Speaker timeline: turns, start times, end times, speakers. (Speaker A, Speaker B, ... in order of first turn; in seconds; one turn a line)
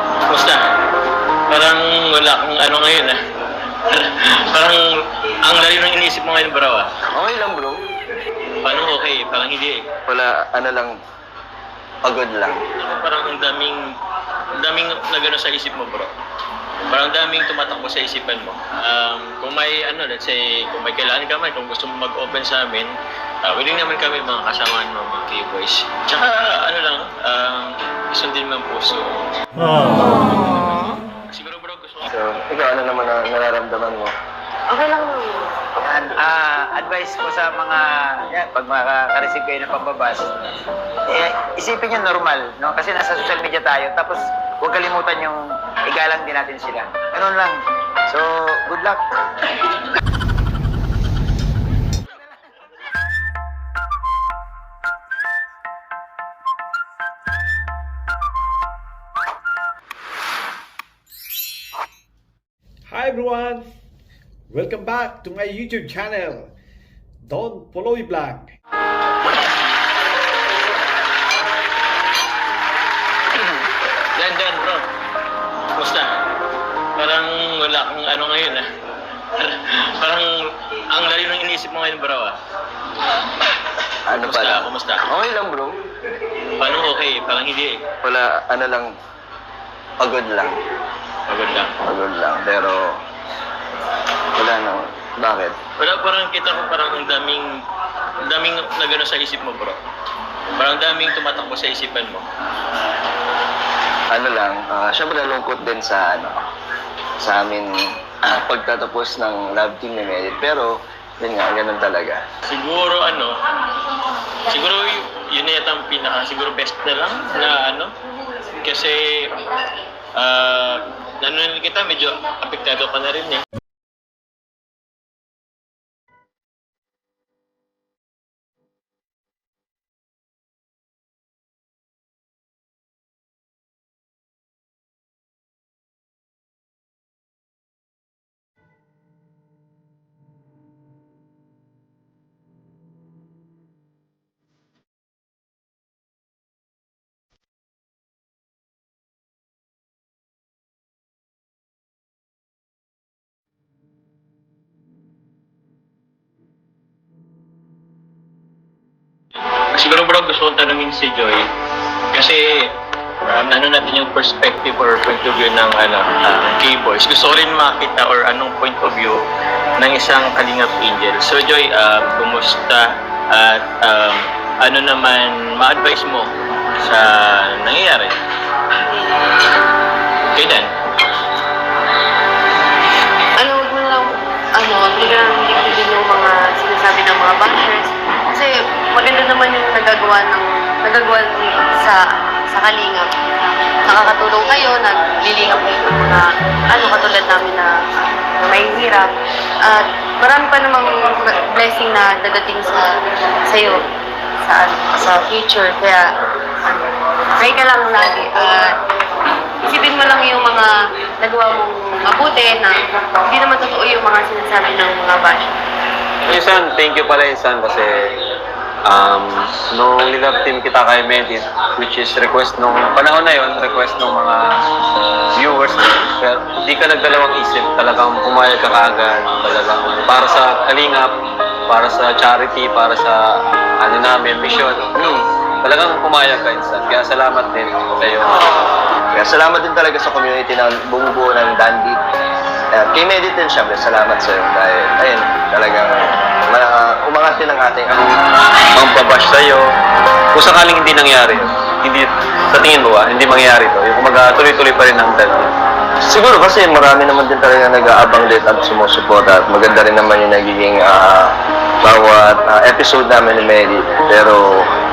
Speaker A: 0.3-0.6
Speaker A: 1.5-3.2
Speaker A: 3.9-4.8
Speaker A: 5.4-6.9
Speaker B: 7.1-7.8
Speaker A: 8.6-9.9
Speaker B: 10.1-10.9
Speaker B: 12.0-12.6
Speaker A: 12.8-13.8
Speaker A: 14.6-16.1
Speaker A: 16.9-22.9
Speaker A: 23.4-29.2
Speaker A: 29.8-32.1
Speaker B: 32.1-34.1
Speaker C: 34.7-35.5
Speaker D: 35.8-40.3
Speaker D: 41.1-49.0
Speaker E: 62.9-63.6
Speaker E: 64.5-66.5
Speaker E: 67.3-68.5
Speaker A: 74.1-74.8
Speaker A: 75.8-76.1
Speaker A: 77.0-78.7
Speaker A: 79.3-80.3
Speaker A: 80.9-82.4
Speaker B: 84.1-85.8
Speaker A: 84.1-85.0
Speaker A: 86.6-87.9
Speaker B: 88.0-88.9
Speaker B: 90.0-90.6
Speaker A: 91.3-91.8
Speaker B: 91.8-93.0
Speaker B: 94.3-95.6
Speaker A: 95.8-97.5
Speaker A: 98.2-99.8
Speaker A: 100.6-102.2
Speaker B: 104.1-106.4
Speaker B: 107.2-112.2
Speaker A: 112.5-113.3
Speaker A: 114.5-117.9
Speaker A: 118.6-119.5
Speaker A: 120.2-123.4
Speaker A: 159.7-161.5
Speaker A: 162.1-162.7
Speaker A: 163.2-169.2
Speaker A: 169.8-178.1
Speaker A: 180.3-180.7
Speaker C: 183.4-199.1
Speaker C: 199.6-202.8
Speaker C: 203.5-203.8
Speaker C: 204.4-206.0
Speaker C: 206.6-208.7
Speaker C: 209.7-215.5
Speaker F: 216.2-218.1
Speaker F: 218.8-224.4
Speaker F: 225.3-231.1
Speaker F: 231.7-238.4
Speaker B: 239.1-242.0
Speaker B: 242.7-248.1
Speaker F: 248.8-249.6
Speaker F: 250.3-255.5
Speaker B: 256.1-264.7